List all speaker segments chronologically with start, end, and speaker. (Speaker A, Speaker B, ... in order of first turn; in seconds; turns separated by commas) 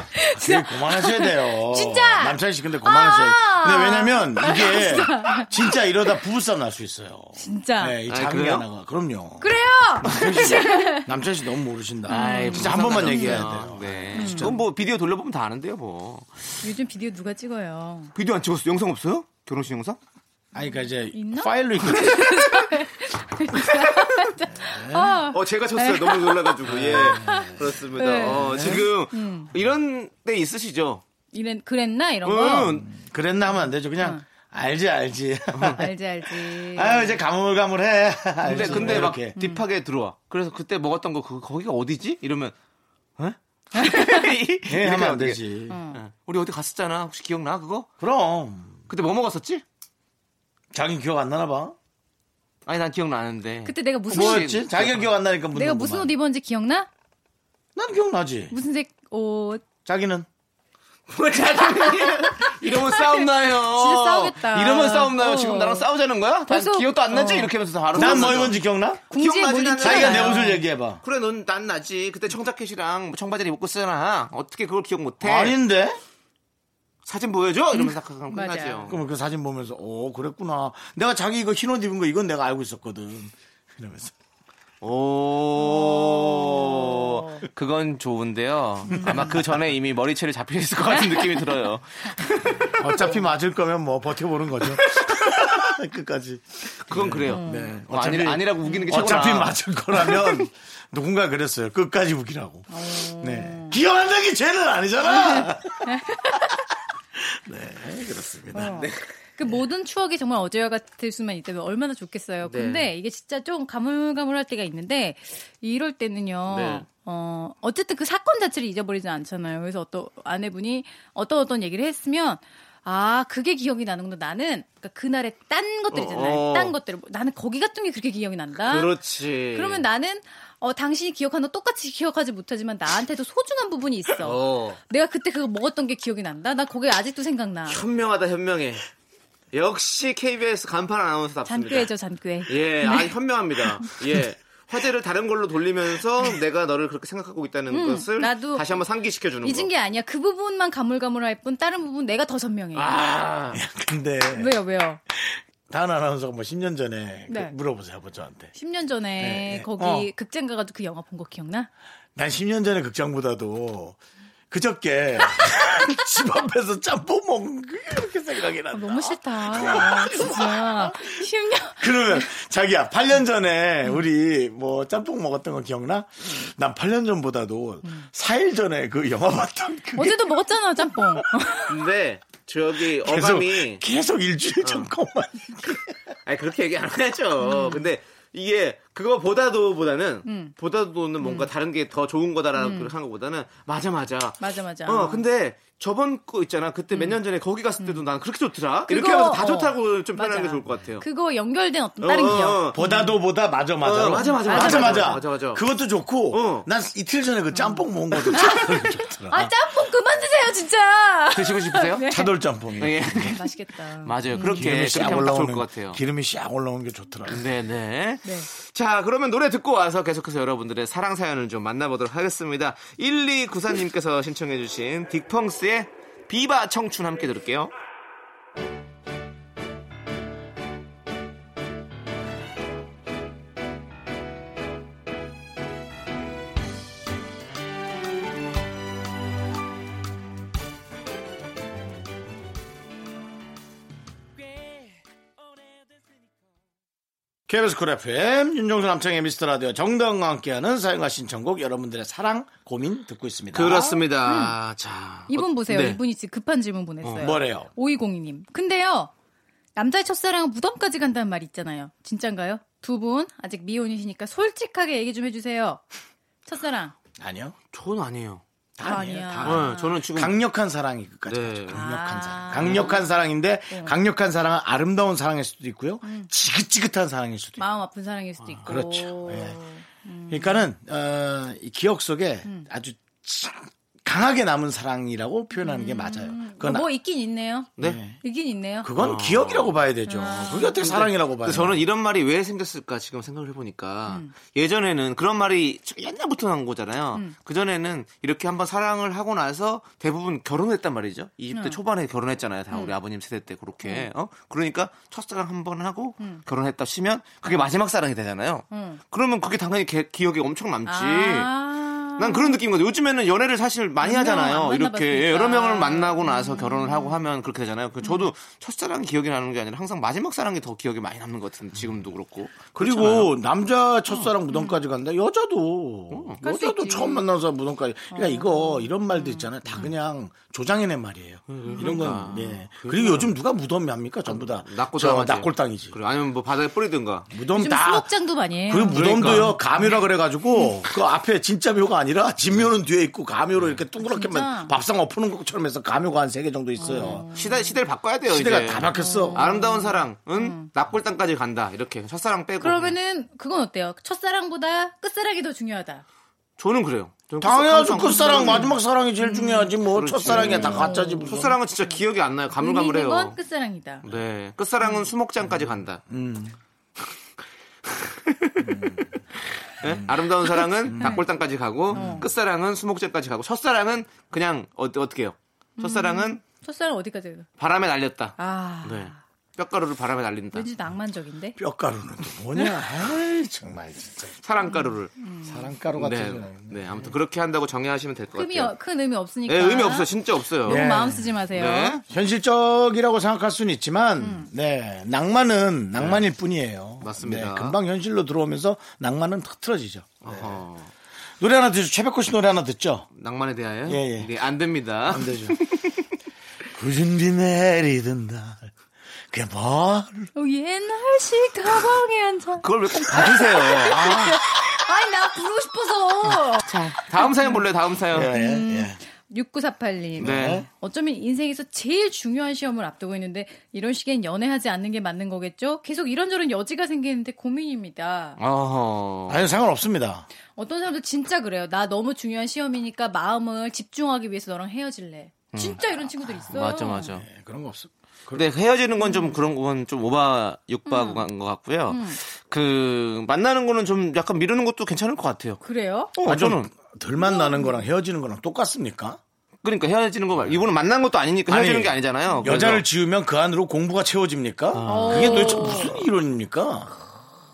Speaker A: 0.1-5.8, Speaker B: 0.3-14.6, Speaker A: 7.4-8.0, Speaker C: 8.1-8.7, Speaker A: 9.4-11.1, Speaker A: 12.1-14.6, Speaker C: 12.1-16.7, Speaker A: 16.6-18.1, Speaker C: 18.1-20.0, Speaker B: 20.5-22.5, Speaker A: 20.6-29.5, Speaker C: 23.5-24.3, Speaker B: 24.5-25.2, Speaker C: 25.3-31.0, Speaker B: 26.7-27.5, Speaker B: 28.4-28.9, Speaker A: 31.3-32.8, Speaker C: 32.2-32.9, Speaker B: 32.8-39.4, Speaker A: 34.0-34.2, Speaker C: 35.5-35.8, Speaker A: 35.8-37.2, Speaker C: 38.5-42.5, Speaker A: 38.5-39.6, Speaker C: 43.2-47.9, Speaker A: 43.8-44.3, Speaker B: 44.7-45.8, Speaker A: 45.7-46.0, Speaker B: 48.0-48.8, Speaker C: 48.9-49.6, Speaker B: 50.7-51.8, Speaker C: 52.6-55.1, Speaker A: 53.7-54.6, Speaker B: 54.1-56.1, Speaker A: 55.5-56.9, Speaker B: 57.8-58.5, Speaker A: 58.5-59.7, Speaker B: 59.9-60.3, Speaker C: 61.1-68.6, Speaker A: 62.1-65.9, Speaker A: 66.5-68.5, Speaker B: 67.9-69.0, Speaker A: 69.1-70.6, Speaker C: 69.1-75.6, Speaker B: 69.8-71.0, Speaker B: 75.2-76.0, Speaker C: 77.0-79.0, Speaker A: 77.7-79.0, Speaker B: 78.9-84.1, Speaker C: 84.8-92.8, Speaker A: 85.6-87.5, Speaker A: 88.9-89.4, Speaker A: 91.0-91.5, Speaker B: 92.8-106.2, Speaker C: 94.9-95.4, Speaker C: 96.9-100.2, Speaker A: 97.3-97.8, Speaker A: 98.7-99.0, Speaker A: 102.7-103.8, Speaker A: 105.0-106.5, Speaker B: 107.2-108.8, Speaker A: 108.5-128.9, Speaker C: 108.6-109.1, Speaker C: 112.4-112.9, Speaker C: 116.5-116.9, Speaker C: 125.9-126.8, Speaker C: 128.6-129.9, Speaker A: 129.5-137.8, Speaker C: 134.2-134.8, Speaker C: 137.7-138.8, Speaker C: 139.5-141.9, Speaker A: 141.5-143.1, Speaker C: 142.5-149.7, Speaker A: 143.6-144.0, Speaker A: 147.7-148.7, Speaker A: 149.4-153.0, Speaker C: 152.8-153.6, Speaker B: 153.5-154.6, Speaker A: 154.3-155.0, Speaker B: 155.1-158.5, Speaker A: 158.5-161.7, Speaker B: 159.2-160.1, Speaker B: 162.2-164.0, Speaker B: 164.5-171.2, Speaker A: 168.7-172.2, Speaker B: 171.8-180.3, Speaker A: 180.0-181.8, Speaker C: 181.7-183.8, Speaker B: 183.0-185.9, Speaker C: 184.6-184.9, Speaker C: 186.2-201.1, Speaker A: 187.4-187.9, Speaker A: 190.2-190.5, Speaker A: 191.2-191.5, Speaker A: 192.6-192.9, Speaker A: 194.4-195.2, Speaker A: 196.9-197.2, Speaker A: 198.9-203.2, Speaker C: 202.0-202.8, Speaker B: 202.7-209.5, Speaker C: 203.8-205.6, Speaker A: 204.2-205.3, Speaker C: 206.3-206.7, Speaker A: 207.5-212.3, Speaker C: 211.3-212.1, Speaker B: 212.1-213.4, Speaker C: 212.8-213.4, Speaker A: 213.3-215.3, Speaker C: 214.1-216.0, Speaker B: 214.4-217.4, Speaker C: 217.3-227.7, Speaker A: 218.2-218.5, Speaker B: 247.5-254.0, Speaker C: 253.5-256.0, Speaker A: 254.2-254.6, Speaker A: 255.3-259.1, Speaker C: 257.0-257.3, Speaker B: 257.2-257.7, Speaker A: 259.8-265.8, Speaker A: 266.4-266.9, Speaker B: 267.2-267.6, Speaker C: 267.7-268.4, Speaker B: 268.8-277.6, Speaker A: 268.8-270.0, Speaker C: 269.4-270.4, Speaker C: 271.3-271.8, Speaker A: 271.7-273.1, Speaker C: 272.5-273.0, Speaker A: 273.7-274.0, Speaker A: 277.6-280.7, Speaker B: 278.6-279.6, Speaker B: 280.3-286.9, Speaker A: 285.6-288.9, Speaker B: 287.8-288.2, Speaker B: 288.8-291.8, Speaker C: 289.0-289.8, Speaker A: 290.1-290.9, Speaker C: 290.8-311.6, Speaker A: 301.5-301.8, Speaker A: 302.7-303.0, Speaker A: 303.8-304.1, Speaker A: 308.7-309.0, Speaker A: 310.9-312.6, Speaker C: 312.2-323.3, Speaker A: 314.0-317.2, Speaker A: 318.0-318.3, Speaker B: 322.8-335.9, Speaker A: 324.5-324.8, Speaker C: 326.1-326.4, Speaker A: 326.4-327.3, Speaker A: 328.1-329.9, Speaker C: 331.5-333.4, Speaker C: 334.3-337.3, Speaker B: 337.3-338.1, Speaker A: 337.5-340.0, Speaker B: 338.7-347.2, Speaker C: 338.9-339.6, Speaker C: 343.6-343.8, Speaker A: 344.0-344.7, Speaker A: 346.8-347.8, Speaker C: 346.9-353.0, Speaker B: 348.3-349.4, Speaker A: 348.9-350.7, Speaker A: 352.6-356.0, Speaker C: 356.6-358.7, Speaker B: 357.4-361.5, Speaker A: 357.9-359.8, Speaker C: 359.9-363.4, Speaker A: 360.3-362.0, Speaker A: 362.5-364.1, Speaker C: 364.0-366.0, Speaker B: 366.1-366.6, Speaker C: 367.9-376.4, Speaker B: 368.6-369.1, Speaker B: 369.8-370.1, Speaker B: 370.9-371.2, Speaker A: 370.9-371.2, Speaker A: 371.9-372.3, Speaker B: 371.9-372.3, Speaker A: 375.8-377.5, Speaker C: 377.6-380.7, Speaker A: 378.4-379.2, Speaker A: 380.5-381.6, Speaker B: 381.6-384.4, Speaker A: 382.6-382.8, Speaker C: 384.4-385.1, Speaker A: 384.6-385.7, Speaker B: 385.4-387.1, Speaker C: 386.0-388.8, Speaker A: 388.4-392.0, Speaker C: 389.5-390.9, Speaker B: 390.7-391.4, Speaker C: 391.5-392.0, Speaker B: 392.1-400.6, Speaker A: 394.2-394.5, Speaker C: 396.0-396.3, Speaker C: 397.0-397.8, Speaker C: 400.2-400.9, Speaker B: 401.4-403.1, Speaker C: 403.1-406.0, Speaker B: 403.9-404.3, Speaker B: 405.1-405.6, Speaker B: 406.8-408.7, Speaker B: 409.3-410.3, Speaker A: 410.4-417.6, Speaker C: 412.6-414.3, Speaker B: 413.9-414.4, Speaker C: 416.6-418.3, Speaker B: 418.1-419.0, Speaker A: 418.3-428.4, Speaker B: 420.2-420.7, Speaker C: 420.2-420.6, Speaker C: 428.4-429.4, Speaker B: 429.3-430.3, Speaker A: 430.6-437.1, Speaker C: 435.5-435.8, Speaker C: 436.5-437.3, Speaker B: 437.1-438.5, Speaker C: 438.3-445.6, Speaker A: 439.0-439.4, Speaker A: 440.9-441.3, Speaker A: 441.9-442.2, Speaker A: 445.6-446.1, Speaker C: 446.1-446.7, Speaker B: 446.2-449.2, Speaker A: 447.2-447.8, Speaker C: 449.6-452.9, Speaker B: 451.5-456.9, Speaker C: 454.7-455.9, Speaker A: 454.9-456.0